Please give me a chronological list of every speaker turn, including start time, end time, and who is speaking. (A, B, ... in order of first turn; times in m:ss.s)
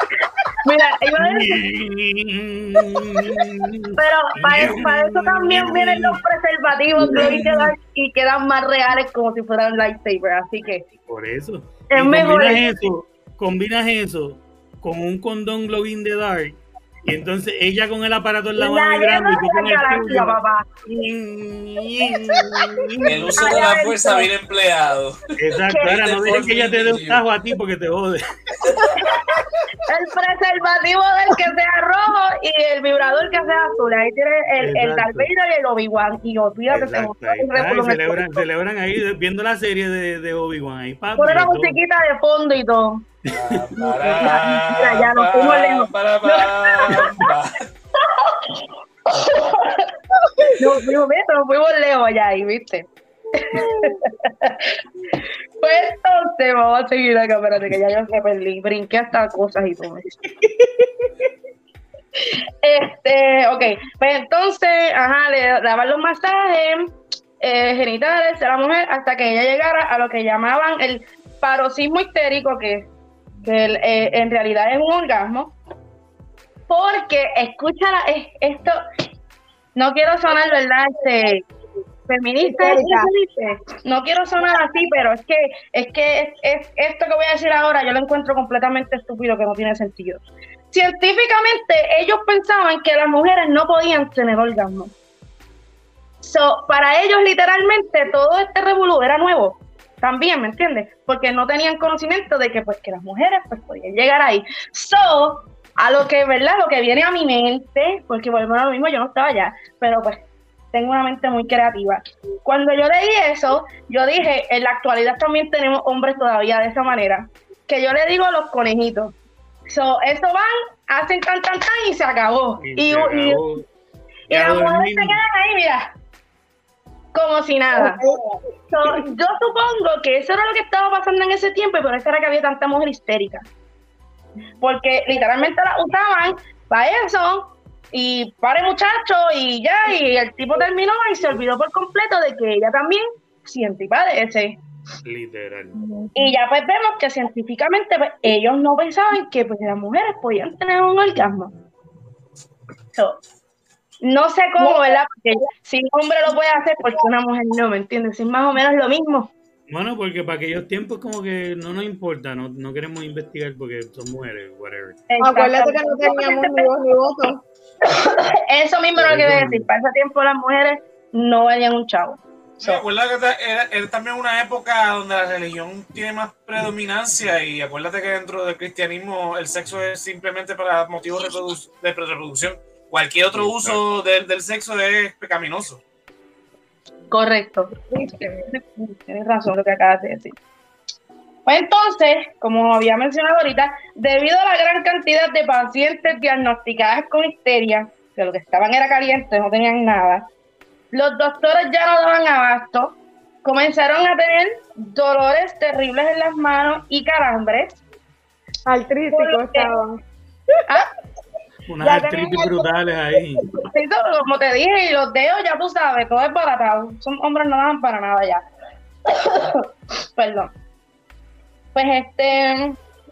0:00.6-0:01.6 A
0:01.2-0:06.2 B
0:04.0-0:10.9 A
0:07.0-0:07.8 B
0:11.0-0:23.7 B
0:11.9-0:12.6 A
0:18.6-0:20.6 A
0:23.0-0:25.2 C
0:23.4-0:24.3 A
0:25.4-0:28.6 B
0:25.7-0:26.0 A
0:25.8-0:27.2 C
0:28.7-0:29.4 D
0:29.0-0:38.4 A
0:34.6-0:35.3 B
0:36.7-0:41.8 B
0:41.2-0:43.0 A
0:43.2-0:44.4 B
0:43.3-0:47.7 C
0:44.2-0:47.3 A
0:48.1-0:49.9 A
0:50.2-0:50.6 D
0:50.6-1:00.1 A
0:53.4-0:54.0 D
1:02.2-1:12.9 A
1:13.4-1:15.6 A
1:16.7-1:18.8 A
1:19.8-1:21.5 A
1:22.1-1:34.9 A
1:22.4-1:23.1 D
1:36.2-1:59.2 A
1:59.7-2:03.4 A
2:02.6-2:03.7 B
2:04.3-2:05.2 B
2:04.3-2:05.9 A
2:07.1-2:08.0 A
2:07.8-2:09.1 D
2:08.7-2:13.4 A
2:14.6-2:24.6 A
2:25.0-2:25.8 B
2:25.8-2:26.1 D
2:26.2-2:31.5 A
2:34.0-2:39.3 A
2:34.6-2:35.0 D
2:39.7-2:45.0 B
2:45.1-2:46.7 A
2:45.2-2:47.4 D
2:47.8-2:52.8 A
2:49.0-2:49.7 B
2:52.6-3:05.8 C
3:03.3-3:03.8 B
3:07.1-3:07.7 A
3:07.9-3:08.5 D
3:08.5-3:10.3 A
3:11.5-3:20.3 A
3:20.9-3:27.8 A
3:28.7-3:30.0 D
3:29.1-3:29.7 A
3:31.7-3:33.5 B
3:31.8-3:32.4 A
3:32.2-3:32.5 D
3:33.6-3:38.4 A
3:39.1-3:40.5 A
3:41.7-3:42.8 A